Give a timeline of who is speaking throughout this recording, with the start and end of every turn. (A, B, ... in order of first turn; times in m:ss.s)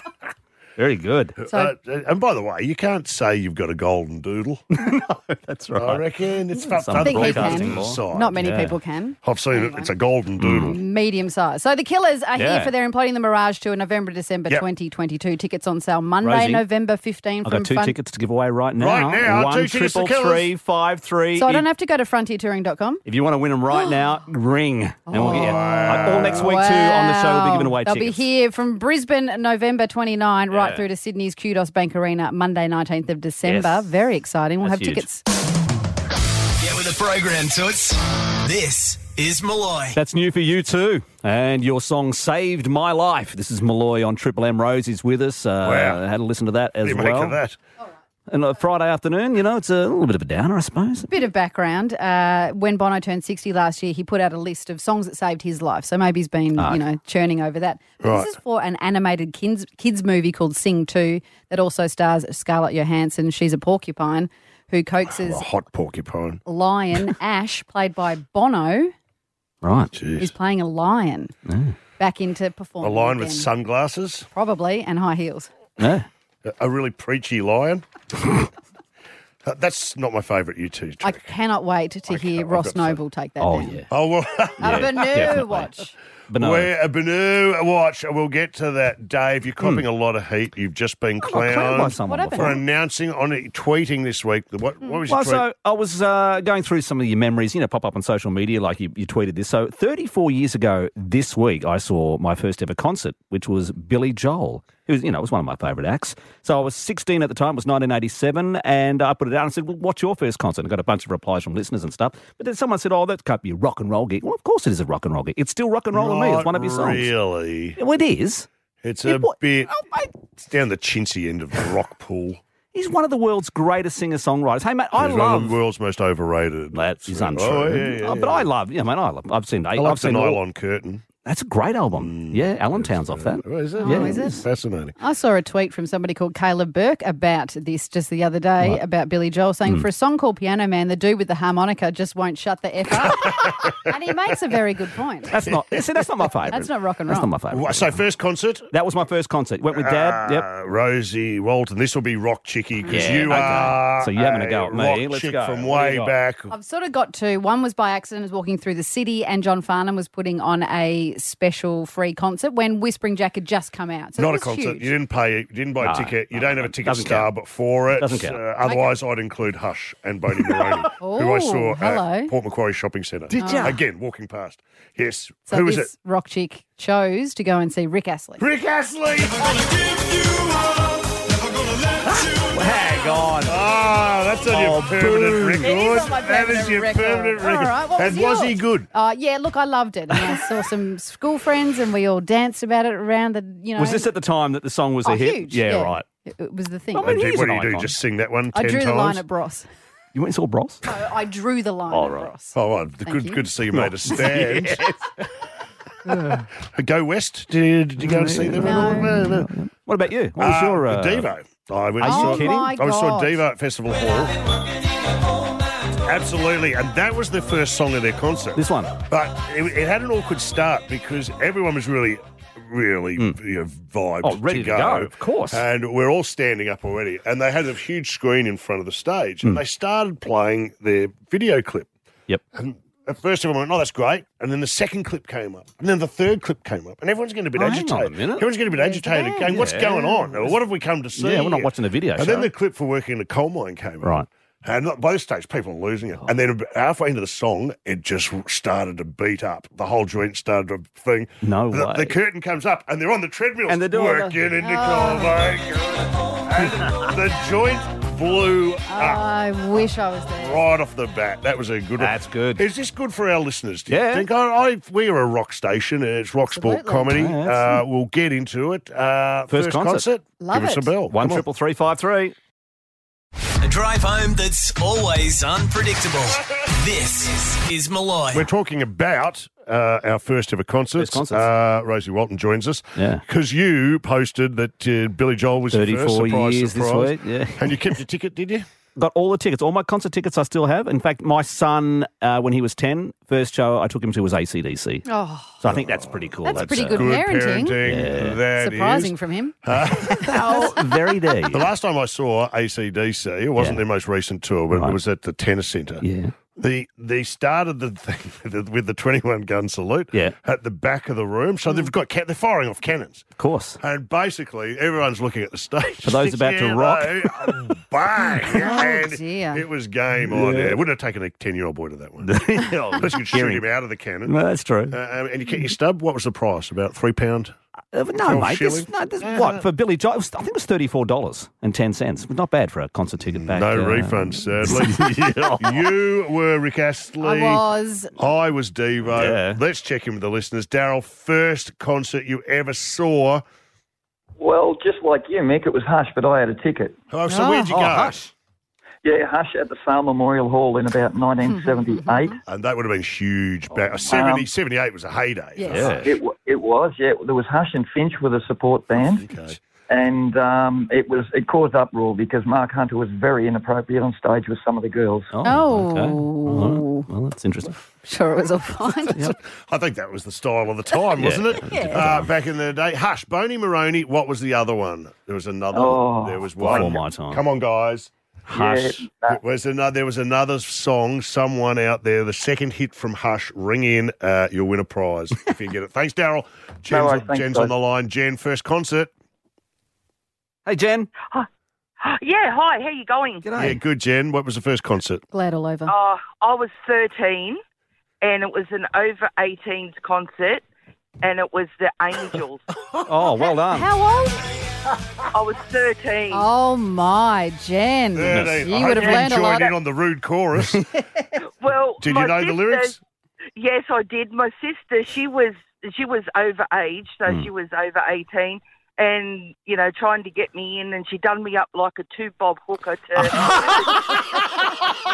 0:00.8-0:01.4 A
0:01.4-0:04.6 B
0:04.8-0:06.0 A
0:05.8-0:08.4 B
0:06.6-0:08.7 A
0:07.0-0:09.9 C
0:09.2-0:10.8 B
0:10.4-0:10.8 A
0:10.6-0:18.0 C
0:12.3-0:12.7 A
0:16.2-0:16.6 A
0:17.4-0:21.7 A
0:18.8-0:20.5 B
0:21.4-0:23.0 C
0:23.0-0:28.2 A
0:25.1-0:35.2 C
0:25.2-0:26.5 B
0:30.5-0:30.8 A
0:33.4-0:33.9 A
0:34.6-0:35.0 A
0:36.6-0:40.0 D
0:39.9-0:47.4 A
0:45.6-0:46.0 B
0:46.8-0:47.6 B
0:48.3-0:51.1 A
0:51.1-1:05.4 C
0:58.0-0:58.3 B
1:05.0-1:06.4 B
1:06.4-1:08.9 C
1:09.6-1:09.9 A
1:09.9-1:10.3 B
1:10.2-1:11.3 C
1:11.5-1:11.7 A
1:12.0-1:13.5 C
1:12.8-1:14.3 B
1:14.3-1:15.5 C
1:15.8-1:16.1 A
1:16.4-1:17.8 B
1:19.4-1:21.3 B
1:21.0-1:23.8 C
1:22.1-1:23.0 B
1:23.4-1:23.9 A
1:23.9-1:25.0 B
1:24.6-1:25.9 C
1:24.6-1:25.7 A
1:26.3-1:26.7 A
1:26.4-1:35.4 B
1:31.2-1:32.6 A
1:32.0-1:32.6 C
1:35.1-1:57.1 A
1:55.9-1:57.8 B
1:57.8-1:58.5 A
1:58.8-1:59.7 B
1:59.0-2:00.1 A
2:00.4-2:02.4 B
2:02.7-2:05.6 A
2:04.9-2:08.5 B
2:06.7-2:10.4 A
2:09.8-2:11.0 B
2:11.2-2:14.3 A
2:11.9-2:14.9 B
2:13.8-2:14.4 C
2:15.0-2:25.3 C
2:23.0-2:23.8 B
2:25.3-2:28.0 A
2:26.5-2:27.3 C
2:27.5-2:28.7 B
2:28.7-2:30.4 A
2:29.7-2:36.5 B
2:32.8-2:33.2 C
2:32.9-2:36.2 A
2:36.5-2:44.9 C
2:44.2-2:55.9 B
2:45.8-2:47.3 A
2:48.0-2:48.4 A
2:51.0-2:52.3 C
2:53.3-2:53.8 A
2:53.3-2:53.7 C
2:55.5-2:58.4 C
2:58.4-2:59.6 B
3:02.0-3:03.6 A
3:03.4-3:08.9 B
3:04.5-3:05.7 A
3:05.6-3:14.0 C
3:13.8-3:16.0 A
3:15.0-3:17.1 C
3:16.9-3:17.9 A
3:17.0-3:19.2 B
3:18.5-3:19.6 C
3:20.1-3:20.8 A
3:20.8-3:22.5 C
3:21.9-3:22.3 A
3:22.5-3:24.8 B
3:23.0-3:23.4 C
3:23.7-3:25.0 A
3:26.1-3:26.4 A
3:26.7-3:29.5 B
3:28.0-3:31.3 A
3:28.6-3:29.1 C
3:30.4-3:34.4 B
3:32.0-3:32.7 A
3:32.0-3:33.4 C
3:36.0-3:51.9 B
3:38.6-3:39.0 A
3:44.2-3:45.6 A
3:52.5-4:19.2 B
3:57.6-3:58.4 A
3:58.7-4:00.3 C
3:59.4-4:00.0 A
4:01.2-4:02.5 A
4:11.4-4:12.1 A
4:13.7-4:14.4 A
4:14.6-4:15.5 C
4:18.9-4:20.6 C
4:20.4-4:31.4 B
4:22.0-4:22.6 A
4:23.9-4:24.2 A
4:26.5-4:27.2 C
4:27.1-4:27.8 A
4:29.5-4:30.0 A
4:30.4-4:30.9 C
4:31.1-4:32.3 A
4:33.6-4:38.4 D
4:38.3-4:48.6 B
4:41.0-4:41.4 A
4:43.0-4:43.2 A
4:45.7-4:47.7 A
4:49.0-4:55.0 A
4:55.0-4:55.6 C
4:55.6-4:57.1 A
4:55.6-5:00.7 B
4:56.4-4:57.8 C
4:57.8-4:58.4 A
4:58.5-4:59.5 C
5:00.1-5:00.8 C
5:00.2-5:01.7 A
5:01.5-5:06.0 B
5:06.0-5:06.3 A
5:06.6-5:13.3 B
5:13.4-5:13.8 A
5:13.8-5:24.4 B
5:16.0-5:17.1 A
5:18.5-5:19.6 C
5:20.2-5:20.8 A
5:22.2-5:23.6 A
5:24.2-5:24.9 A
5:24.9-5:27.5 B
5:27.9-5:35.8 A
5:28.2-5:29.6 B
5:33.2-5:37.6 B
5:37.2-5:38.1 C
5:38.2-5:43.4 B
5:39.1-5:39.6 A
5:44.4-5:47.0 E
5:47.1-5:48.2 B
5:47.3-5:48.3 A
5:47.3-5:47.6 C
5:49.0-5:52.4 E
5:51.4-5:52.4 C
5:52.4-5:56.0 B
5:53.7-5:54.2 A
5:54.1-5:54.4 E
5:55.6-5:55.9 C
5:55.7-5:56.1 A
5:56.0-5:59.2 E
5:58.9-5:59.6 B
5:59.9-6:05.3 E
6:05.3-6:07.8 A
6:05.4-6:07.1 C
6:08.0-6:09.2 C
6:09.2-6:18.1 B
6:11.2-6:12.3 A
6:11.6-6:12.1 C
6:15.7-6:16.8 E
6:16.6-6:17.4 A
6:18.5-6:19.1 A
6:18.5-6:19.4 E
6:19.2-6:29.1 B
6:26.9-6:27.7 E
6:30.6-6:31.1 A
6:32.0-6:33.5 F
6:33.4-6:33.8 A
6:33.6-6:35.2 B
6:35.3-6:35.9 C
6:35.8-6:37.6 F
6:38.2-6:40.6 F
6:41.2-6:42.6 F
6:43.0-6:43.9 A
6:43.7-6:44.4 C
6:45.3-6:46.5 F
6:46.3-6:49.7 C
6:48.1-6:50.8 B
6:48.3-6:48.6 A
6:48.8-6:49.8 F
6:51.6-6:53.0 F
6:52.0-6:53.0 B
6:53.6-7:04.2 F